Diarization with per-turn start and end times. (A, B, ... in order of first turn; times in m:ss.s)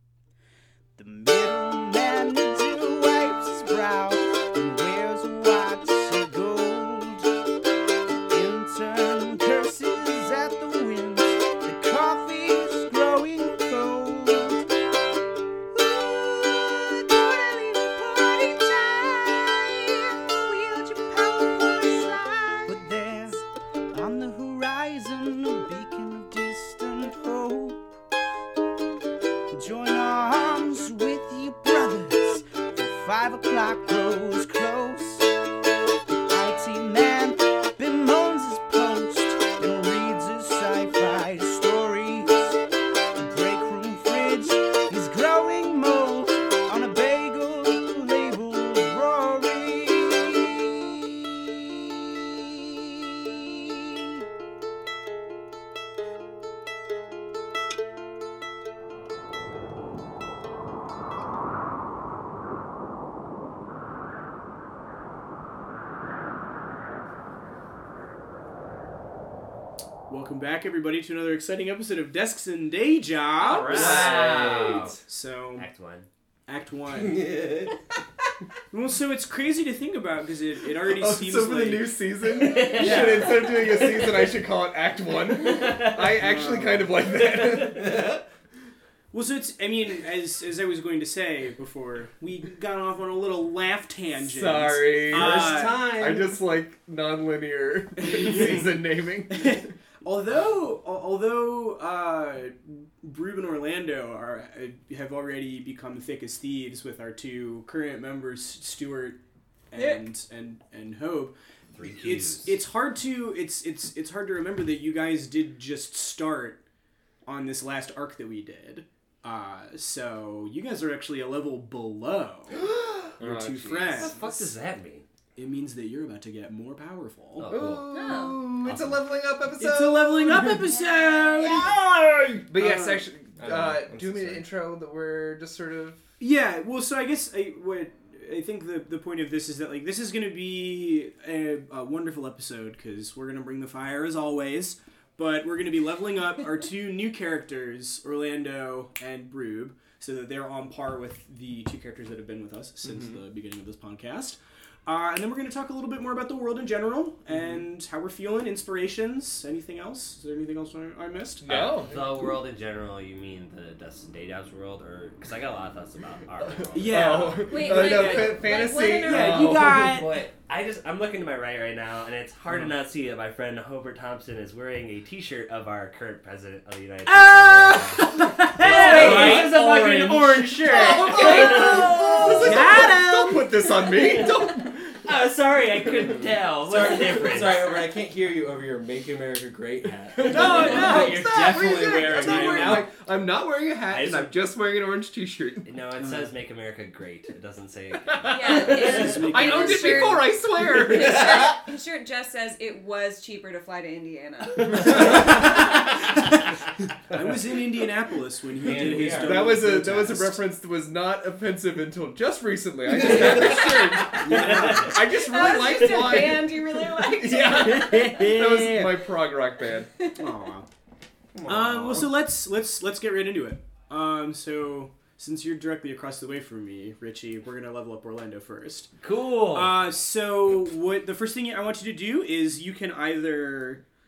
0:01.0-0:07.3 A
0:08.3-0:14.6 A
0:15.7-0:27.9 A
0:29.5-0:35.3 A
0:36.1-0:42.6 A
0:43.2-0:51.1 A
0:52.2-0:52.5 A
1:10.1-1:14.4 B
1:13.4-1:15.0 C
1:13.5-1:14.8 D
1:13.8-1:14.1 E
1:15.0-1:15.7 B
1:15.6-1:16.1 C
1:16.5-1:17.5 B
1:17.0-1:17.7 D
1:18.7-1:22.0 B
1:20.8-1:28.1 E
1:22.3-1:23.2 C
1:22.7-1:23.4 B
1:26.2-1:27.0 B
1:27.8-1:28.2 D
1:29.1-1:35.9 B
1:34.2-1:39.7 E
1:35.0-1:36.4 D
1:38.0-1:38.7 B
1:39.4-1:49.2 B
1:49.7-1:56.6 B
1:51.7-1:52.6 C
1:57.2-2:02.7 B
2:03.1-2:04.2 E
2:03.2-2:04.2 B
2:03.9-2:05.0 C
2:05.4-2:07.5 B
2:07.4-2:08.1 C
2:07.5-2:10.7 E
2:07.9-2:08.5 F
2:08.6-2:09.1 C
2:09.6-2:11.7 B
2:10.7-2:11.6 F
2:11.4-2:16.1 E
2:12.6-2:13.0 B
2:13.4-2:14.4 D
2:16.2-2:41.5 B
2:41.4-2:42.4 E
2:41.4-2:47.2 C
2:46.5-2:50.2 E
2:46.7-2:50.3 B
2:47.5-2:49.6 F
2:49.7-3:02.9 C
2:57.1-2:59.5 B
2:58.6-3:01.8 D
2:58.9-2:59.4 E
3:00.7-3:05.0 E
3:02.4-3:03.5 B
3:03.8-3:07.9 C
3:05.8-3:06.4 E
3:06.7-3:12.9 D
3:10.2-3:12.9 B
3:10.2-3:15.7 E
3:10.4-3:11.1 C
3:13.9-3:14.3 C
3:15.6-3:18.9 C
3:18.2-3:25.5 F
3:18.3-3:21.6 E
3:18.7-3:20.2 B
3:24.7-3:26.4 B
3:27.1-3:30.4 B
3:28.6-3:29.6 D
3:29.0-3:39.9 E
3:33.0-3:35.0 C
3:34.2-3:35.0 B
3:35.1-3:38.1 F
3:37.4-3:39.0 B
3:40.2-3:40.7 B
3:41.4-3:48.9 B
3:41.8-3:42.0 C
3:49.0-3:49.8 C
3:49.5-3:53.8 B